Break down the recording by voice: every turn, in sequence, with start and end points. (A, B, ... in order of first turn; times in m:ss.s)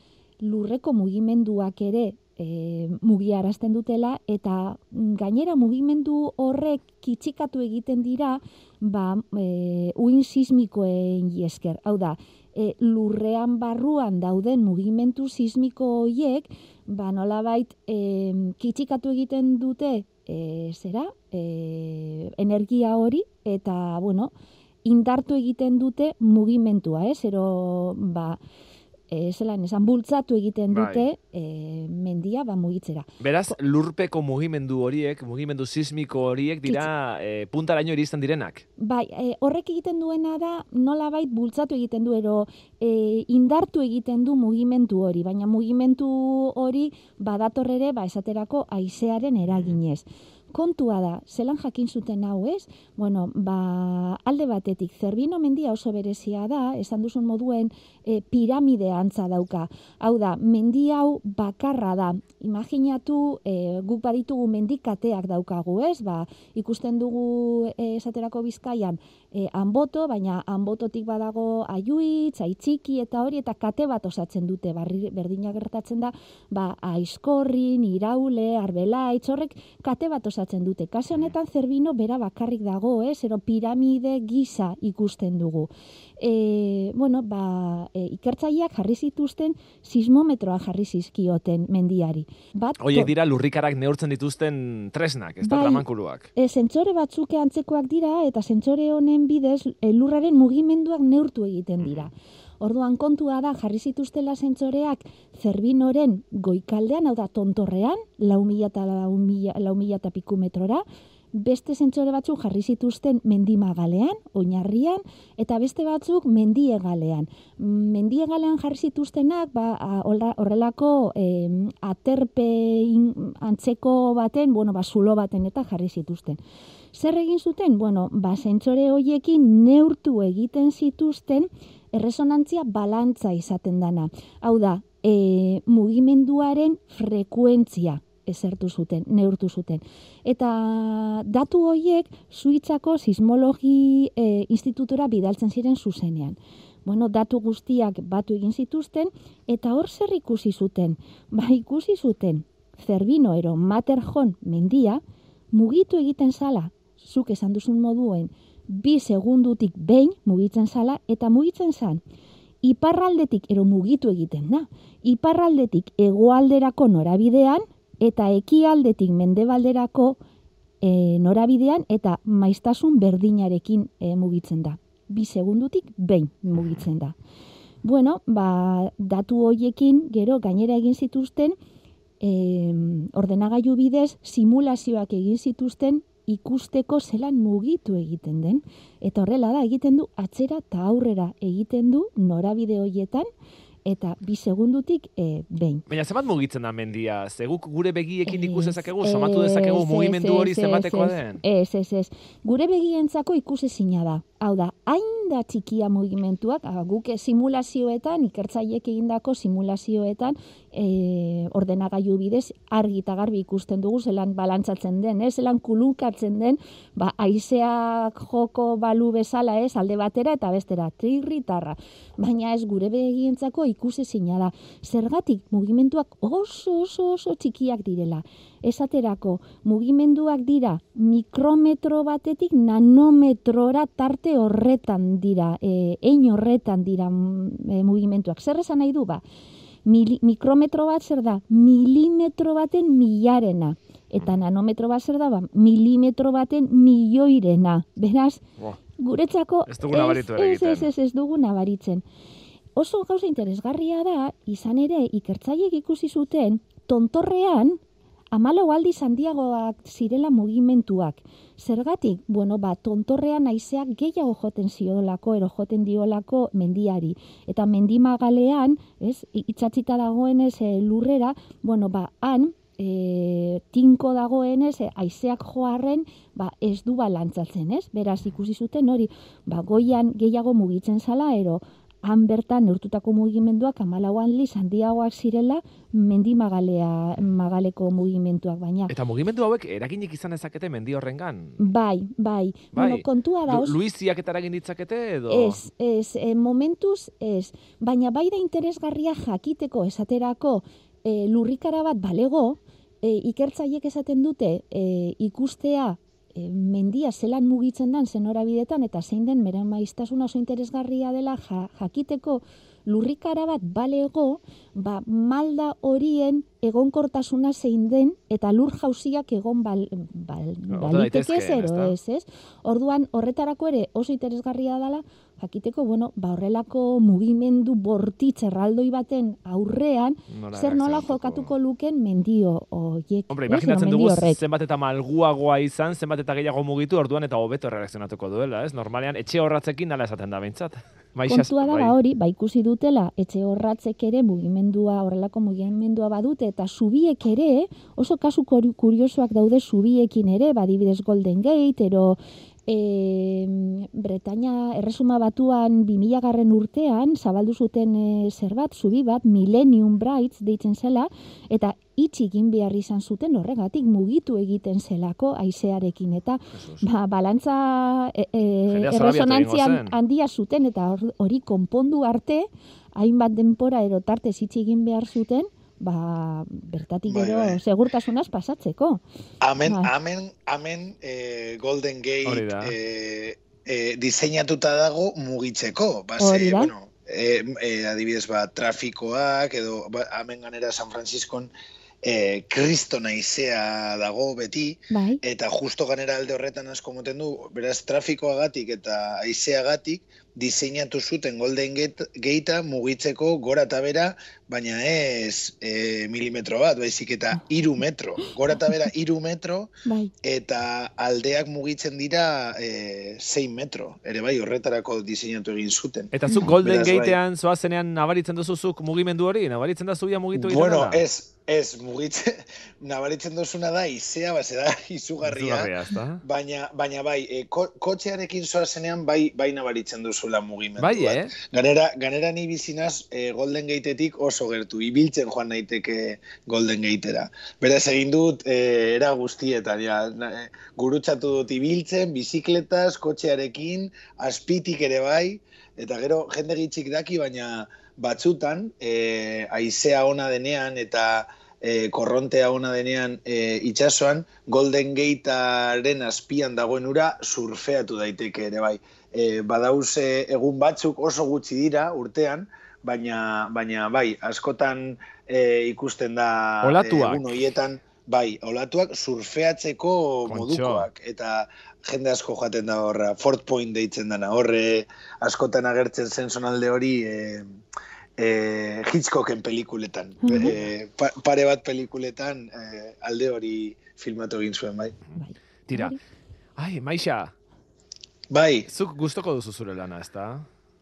0:00.4-0:24.3 A
0:24.8-0:28.4 A
0:29.1-0:33.5 A
0:30.7-0:31.0 B
0:33.2-0:38.6 B
0:38.8-1:33.1 A
0:49.4-0:49.8 B
1:32.8-1:36.3 B
1:35.4-2:06.4 A
1:41.8-1:42.1 B
2:06.9-2:35.0 A
2:35.5-2:42.0 A
2:42.6-2:50.2 A
2:50.8-2:57.2 A
2:57.8-3:01.5 A
3:02.2-3:13.3 A
3:13.8-3:15.8 A
3:15.9-3:21.4 B
3:18.2-3:59.2 A
3:59.8-4:08.4 A
4:09.0-4:12.0 A
4:09.7-4:10.9 B
4:12.8-4:17.8 A
4:18.3-4:48.9 A
4:48.9-4:51.6 B
4:51.6-4:53.8 A
4:52.7-4:55.6 B
4:55.3-5:34.4 A
5:20.7-5:22.0 B
5:30.3-5:31.5 B
5:33.3-5:41.9 B
5:41.3-6:19.0 A
6:06.5-6:06.8 B
6:08.7-6:10.0 B
6:17.1-6:17.6 C
6:19.4-6:31.5 C
6:19.6-6:19.9 A
6:22.2-6:22.8 B
6:26.2-6:26.7 A
6:32.0-6:57.2 C
6:34.9-6:35.2 A
6:48.2-6:48.8 A
6:49.8-6:50.1 A
6:56.1-7:01.0 B
6:56.3-6:56.5 A
7:00.3-7:57.5 C
7:05.2-7:06.2 B
7:10.8-7:11.4 B
7:46.6-7:47.4 B
7:50.3-7:50.9 B
7:58.2-8:05.0 C
8:00.2-8:00.6 A
8:05.2-8:06.0 A
8:05.7-8:05.9 B
8:06.6-8:07.3 B
8:08.3-8:08.7 C
8:08.7-8:10.4 B